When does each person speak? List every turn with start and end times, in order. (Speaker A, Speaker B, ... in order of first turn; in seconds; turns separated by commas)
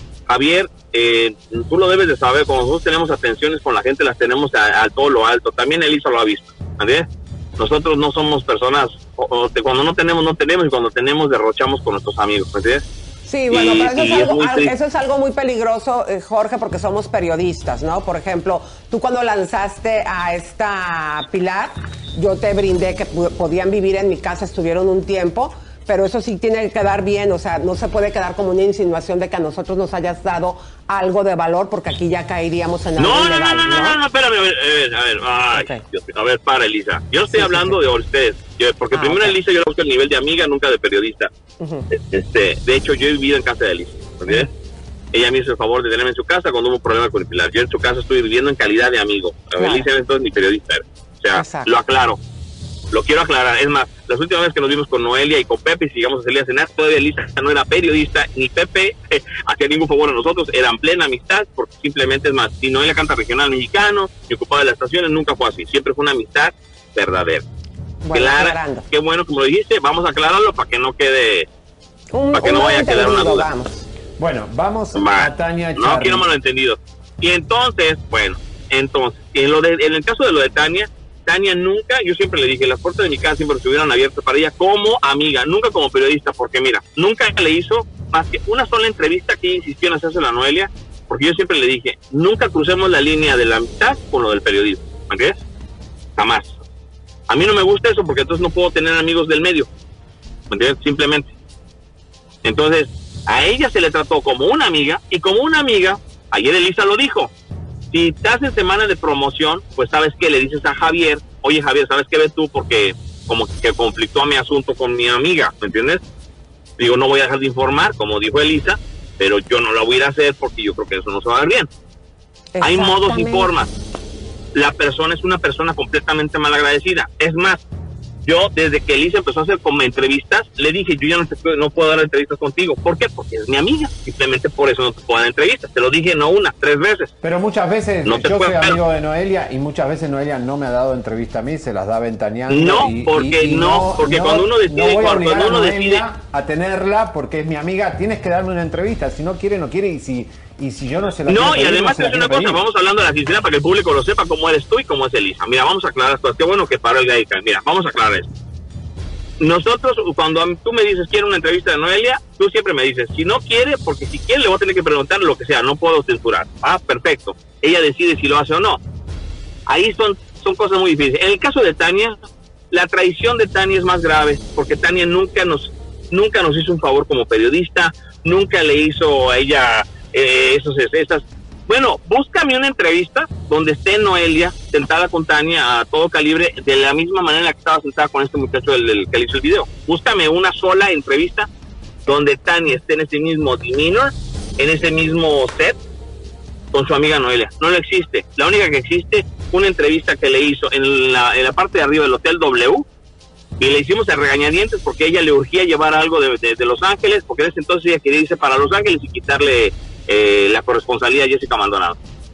Speaker A: 0.3-12.8, Speaker B: 13.2-34.0, Speaker A: 13.5-14.7, Speaker A: 33.0-41.3, Speaker B: 35.5-35.8, Speaker B: 37.3-37.8, Speaker B: 38.9-39.4, Speaker B: 41.6-41.9, Speaker A: 41.9-44.5, Speaker A: 45.1-52.2, Speaker B: 49.5-49.9, Speaker B: 51.3-51.7, Speaker A: 52.9-67.4, Speaker B: 68.0-68.8, Speaker A: 68.1-71.5, Speaker B: 72.1-73.8, Speaker A: 72.3-73.5, Speaker C: 74.2-76.3, Speaker A: 74.9-95.4, Speaker A: 96.2-96.5, Speaker A: 97.3-99.7, Speaker A: 100.5-101.3, Speaker A: 102.4-107.3, Speaker A: 107.9-116.0, Speaker A: 116.8-121.7, Speaker B: 122.5-123.5, Speaker A: 122.6-123.7, Speaker A: 124.5-127.6, Speaker A: 128.2-137.1, Speaker C: 137.2-152.6, Speaker A: 138.0-138.8, Speaker A: 142.5-146.0, Speaker A: 151.2-158.3, Speaker A: 159.4-168.8, Speaker A: 169.7-172.2, Speaker A: 172.7-191.5, Speaker A: 192.1-195.8, Speaker A: 196.7-202.8, Speaker A: 203.6-211.9